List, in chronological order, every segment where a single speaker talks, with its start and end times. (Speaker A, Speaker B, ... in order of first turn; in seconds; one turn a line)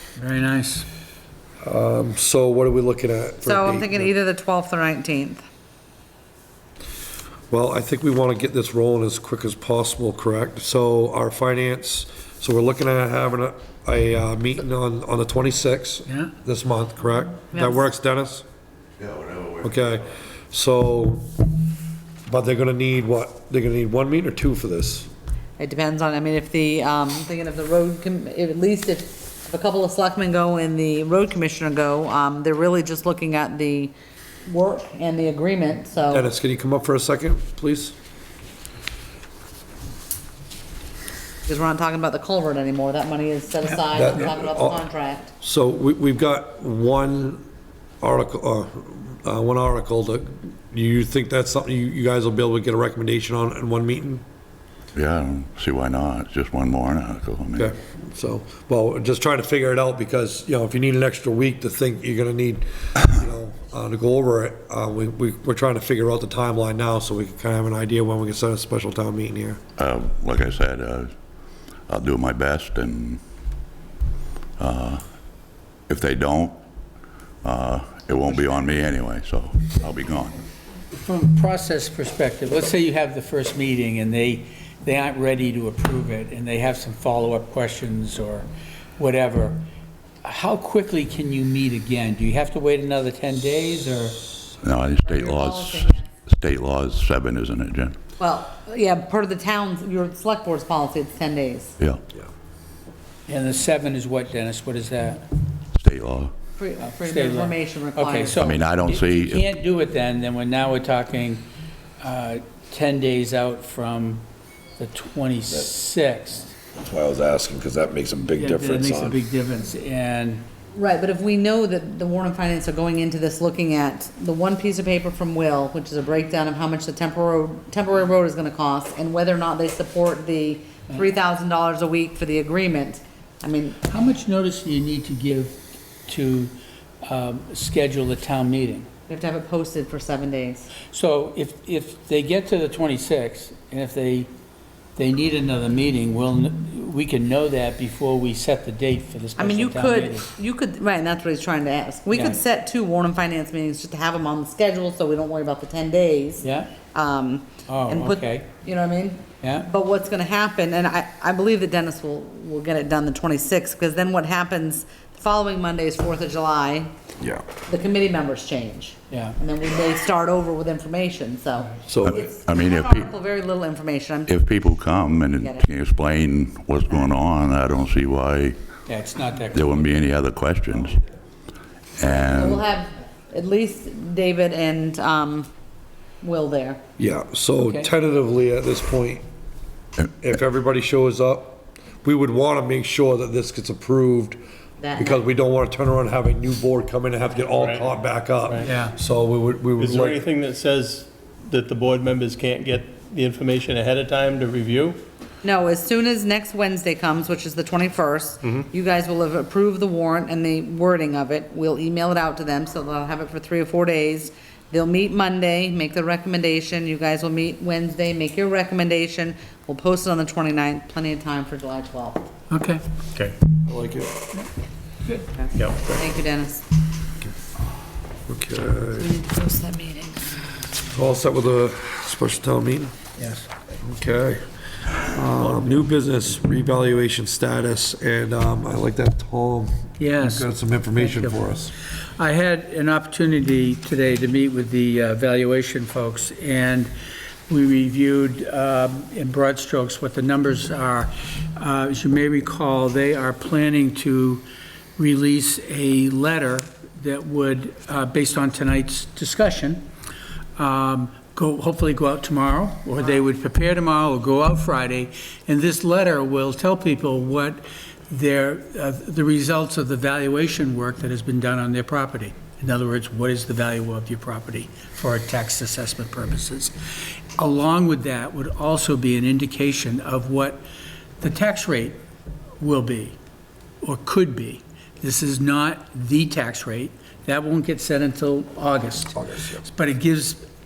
Speaker A: 0.2-0.8
Speaker B: 1.6-4.1
Speaker C: 3.4-5.4
Speaker B: 7.5-18.4
Speaker D: 19.0-19.6
Speaker B: 19.6-21.3
Speaker B: 22.3-25.1
Speaker C: 25.6-33.9
Speaker C: 34.5-36.3
Speaker B: 36.1-37.9
Speaker C: 41.5-45.3
Speaker B: 43.9-44.8
Speaker B: 45.4-47.4
Speaker B: 48.0-54.2
Speaker D: 54.9-57.7
Speaker B: 57.5-69.6
Speaker D: 69.8-71.1
Speaker D: 71.9-73.2
Speaker D: 74.6-75.0
Speaker D: 75.9-76.6
Speaker D: 77.4-80.4
Speaker A: 80.9-89.7
Speaker A: 90.2-94.2
Speaker D: 94.6-98.0
Speaker C: 94.9-96.1
Speaker C: 98.2-101.8
Speaker A: 103.3-105.2
Speaker D: 105.7-106.3
Speaker C: 106.6-108.4
Speaker A: 106.8-111.4
Speaker D: 108.3-109.4
Speaker A: 112.0-114.2
Speaker A: 114.8-116.5
Speaker E: 116.8-119.1
Speaker A: 118.3-120.4
Speaker C: 120.7-133.8
Speaker A: 133.9-136.5
Speaker A: 137.0-138.9
Speaker C: 139.1-140.7
Speaker A: 140.9-144.3
Speaker A: 144.9-150.3
Speaker C: 149.4-166.9
Speaker A: 152.1-152.4
Speaker A: 156.4-156.7
Speaker A: 157.7-158.4
Speaker A: 159.4-159.7
Speaker C: 167.6-174.4
Speaker A: 169.1-169.4
Speaker B: 171.9-172.2
Speaker D: 172.0-173.1
Speaker D: 174.3-178.6
Speaker C: 175.3-175.7
Speaker A: 178.8-179.9
Speaker D: 179.5-181.0
Speaker D: 182.0-182.6
Speaker C: 182.0-185.5
Speaker C: 186.2-186.8
Speaker B: 187.0-189.2
Speaker A: 187.6-187.9
Speaker B: 190.2-194.4
Speaker C: 194.8-195.2
Speaker B: 194.9-200.2
Speaker A: 198.6-198.9
Speaker F: 199.8-205.0
Speaker C: 205.4-222.3
Speaker A: 222.5-222.8
Speaker B: 223.6-224.1
Speaker C: 225.3-226.6
Speaker F: 225.6-225.9
Speaker B: 228.3-229.1
Speaker C: 228.9-230.4
Speaker B: 230.9-232.9
Speaker A: 233.2-233.5
Speaker B: 233.8-234.4
Speaker B: 235.0-241.7
Speaker A: 240.0-241.4
Speaker A: 242.2-246.9
Speaker A: 247.5-254.4
Speaker A: 255.0-259.8
Speaker A: 260.6-276.7
Speaker A: 277.4-280.6
Speaker A: 281.2-282.0
Speaker A: 282.6-283.1
Speaker A: 283.8-290.4
Speaker B: 289.2-289.6